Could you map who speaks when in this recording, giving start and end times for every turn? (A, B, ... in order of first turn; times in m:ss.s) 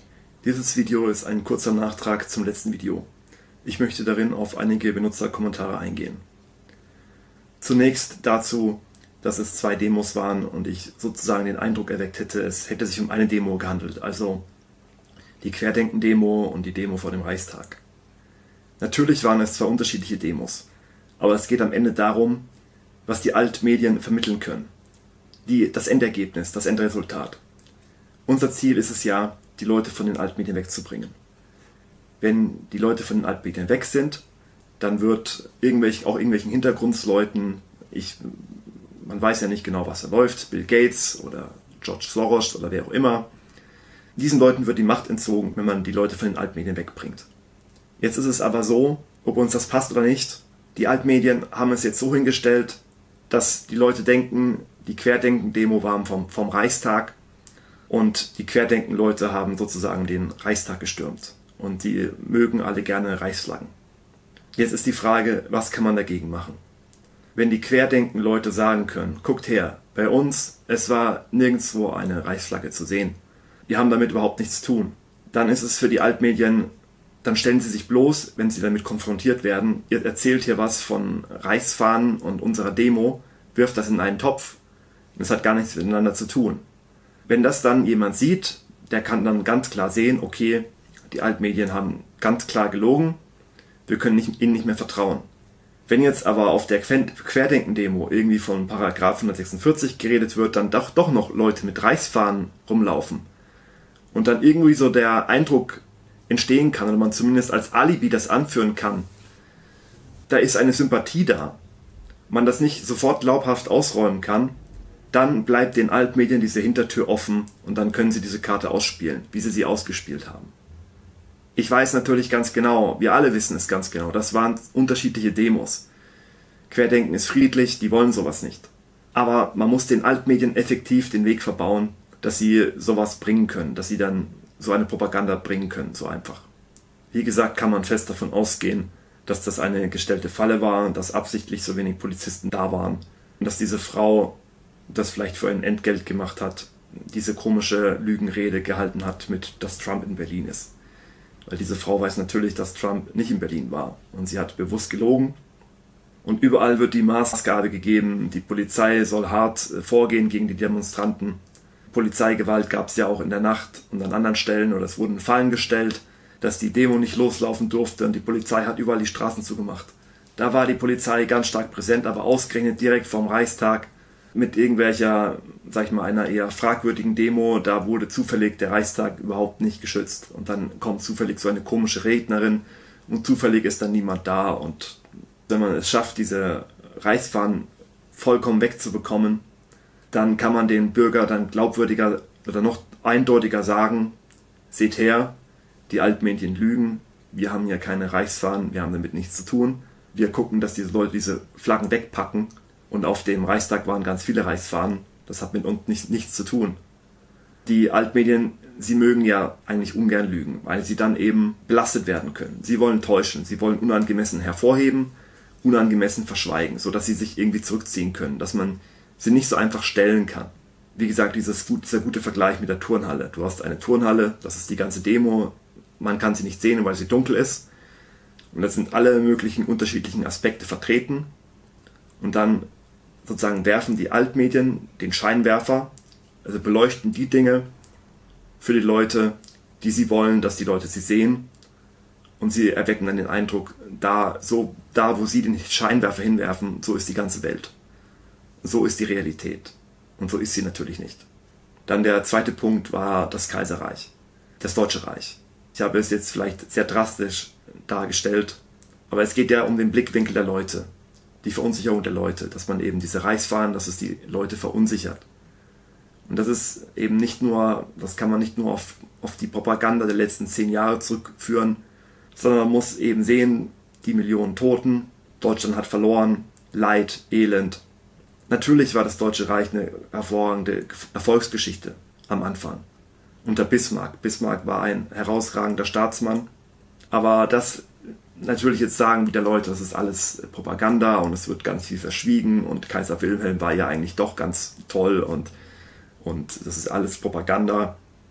0:00.4-0:03.1 A
0:03.6-0:06.2 A
0:07.6-0:14.4 A
0:15.4-0:17.8 A
0:18.8-0:20.7 A
0:21.2-0:22.4 A
0:23.1-0:24.7 A
0:25.5-0:27.4 A
0:28.3-0:31.1 A
0:32.2-0:34.2 A
0:34.8-0:38.4 A
0:39.0-0:43.3 A
0:44.2-0:47.3 A
0:48.0-0:57.2 A
0:57.9-1:03.7 A
1:04.6-1:06.6 A
1:07.4-1:13.2 A
1:13.7-1:16.7 A
1:17.2-1:24.6 A
1:25.2-1:26.6 A
1:27.3-1:33.2 A
1:33.9-1:35.3 A
1:35.9-1:43.3 A
1:44.1-1:49.1 A
1:50.3-1:51.6 A
1:52.3-1:54.6 A
1:55.1-2:00.5 A
2:01.6-2:05.9 A
2:06.7-2:16.5 A
2:17.1-2:24.4 A
2:24.9-2:30.7 A
2:31.4-2:35.4 A
2:36.2-2:41.4 A
2:41.9-3:09.4 A
3:10.1-3:14.2 A
3:14.7-3:15.4 A
3:15.9-3:26.8 A
3:27.7-3:47.7 A
3:48.5-3:51.3 A
3:52.2-3:52.7 A
3:53.2-3:55.9 A
3:56.4-3:57.7 A
3:58.6-4:01.5 A
4:02.4-4:07.7 A
4:08.6-4:11.3 A
4:11.9-4:20.9 A
4:21.4-4:25.2 A
4:26.3-4:31.8 A
4:32.4-4:37.8 A
4:38.5-4:42.8 A
4:43.4-4:46.5 A
4:47.1-4:55.5 A
4:56.2-4:58.0 A